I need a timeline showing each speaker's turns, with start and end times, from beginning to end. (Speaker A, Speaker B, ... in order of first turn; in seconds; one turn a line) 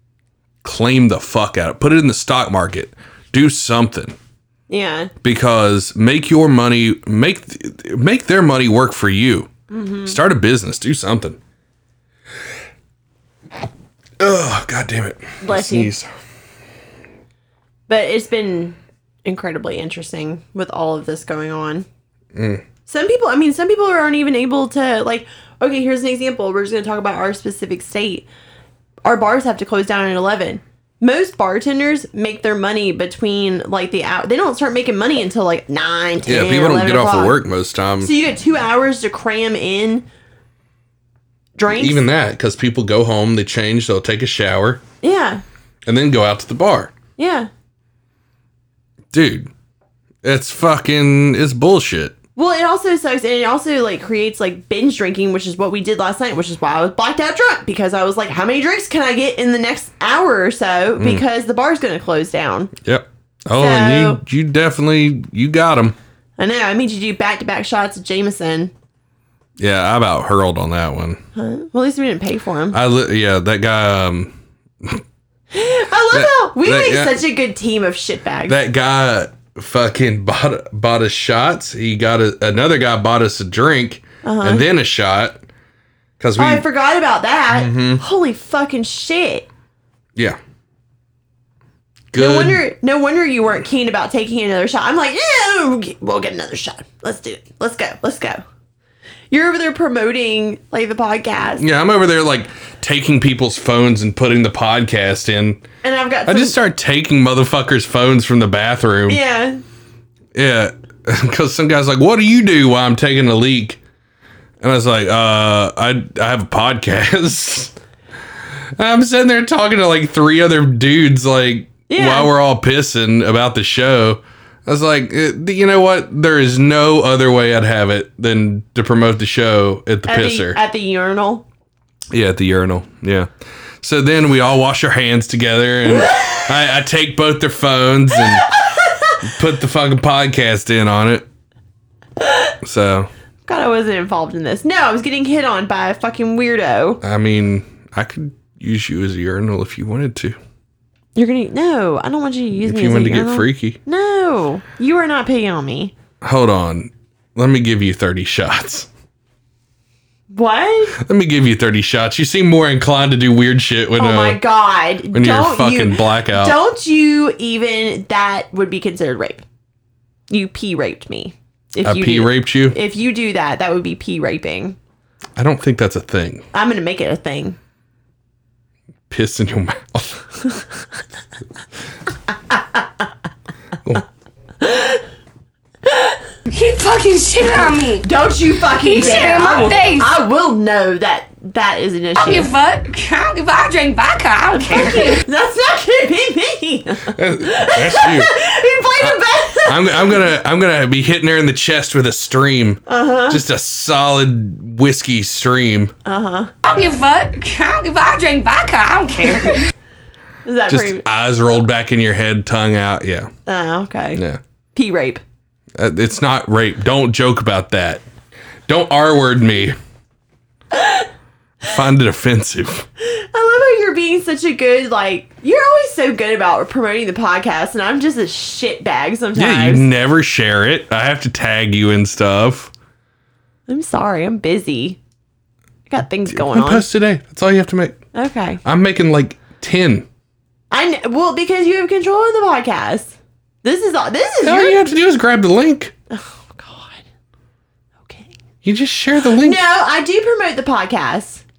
Speaker A: 0.6-4.2
Speaker B: 4.7-5.1
Speaker A: 5.2-9.5
Speaker B: 9.7-10.2
Speaker A: 10.0-11.4
Speaker A: 14.2-16.1
Speaker B: 15.4-15.9
Speaker B: 17.9-21.9
Speaker A: 22.3-22.6
Speaker B: 22.9-28.3
Speaker B: 29.0-37.4
Speaker A: 36.2-38.1
Speaker B: 38.0-40.0
Speaker B: 41.5-42.0
Speaker A: 41.7-44.8
Speaker B: 45.0-45.4
Speaker A: 45.9-46.9
Speaker B: 47.2-47.5
Speaker A: 49.1-49.5
Speaker A: 50.2-52.2
Speaker B: 52.4-62.7
Speaker A: 61.0-61.2
Speaker A: 62.8-66.0
Speaker B: 63.6-64.2
Speaker B: 66.4-68.7
Speaker A: 69.6-71.2
Speaker B: 71.3-72.8
Speaker A: 72.7-75.0
Speaker B: 75.5-78.6
Speaker A: 76.1-77.2
Speaker A: 78.5-85.4
Speaker B: 84.2-84.6
Speaker A: 86.2-86.7
Speaker B: 86.4-89.5
Speaker A: 87.5-88.0
Speaker A: 92.1-92.6
Speaker B: 92.1-98.4
Speaker B: 99.3-101.6
Speaker A: 101.6-105.6
Speaker B: 105.8-106.6
Speaker A: 106.2-109.2
Speaker B: 109.1-109.6
Speaker A: 110.3-113.8
Speaker A: 114.6-117.7
Speaker A: 118.8-130.6
Speaker B: 121.9-122.3
Speaker B: 130.1-131.4
Speaker A: 132.1-133.3
Speaker A: 133.8-138.6
Speaker B: 138.6-138.9
Speaker A: 139.2-141.2
Speaker A: 142.6-143.1
Speaker B: 143.4-147.0
Speaker A: 147.0-150.4
Speaker B: 151.1-155.9
Speaker A: 152.6-153.8
Speaker A: 156.2-158.9
Speaker B: 160.3-161.0
Speaker A: 161.0-164.4
Speaker B: 164.0-169.4
Speaker A: 165.1-166.6
Speaker B: 170.3-174.8
Speaker A: 171.8-172.8
Speaker A: 175.4-176.4
Speaker B: 176.5-177.6
Speaker A: 179.1-180.3
Speaker B: 182.5-182.8
Speaker B: 184.6-185.0
Speaker B: 185.8-186.2
Speaker C: 186.5-188.1
Speaker B: 188.0-192.5
Speaker C: 188.8-190.1
Speaker C: 192.2-195.2
Speaker B: 194.5-200.2
Speaker A: 197.1-198.3
Speaker A: 199.0-205.9
Speaker B: 202.9-203.4
Speaker B: 206.0-206.5
Speaker C: 206.6-209.7
Speaker B: 210.4-211.1
Speaker A: 210.7-213.3
Speaker B: 213.4-214.2
Speaker A: 214.1-214.4
Speaker B: 214.7-215.2
Speaker A: 215.8-218.0
Speaker A: 218.7-219.8
Speaker B: 220.7-221.1
Speaker A: 221.6-222.9
Speaker B: 223.0-229.9
Speaker A: 229.3-232.7
Speaker B: 233.7-235.0
Speaker B: 235.9-236.8
Speaker A: 236.3-238.0
Speaker B: 238.1-238.6
Speaker A: 238.6-240.1
Speaker B: 240.7-244.8
Speaker A: 244.4-245.9
Speaker B: 246.1-247.0
Speaker B: 248.0-248.3
Speaker A: 248.6-249.6
Speaker B: 249.2-251.4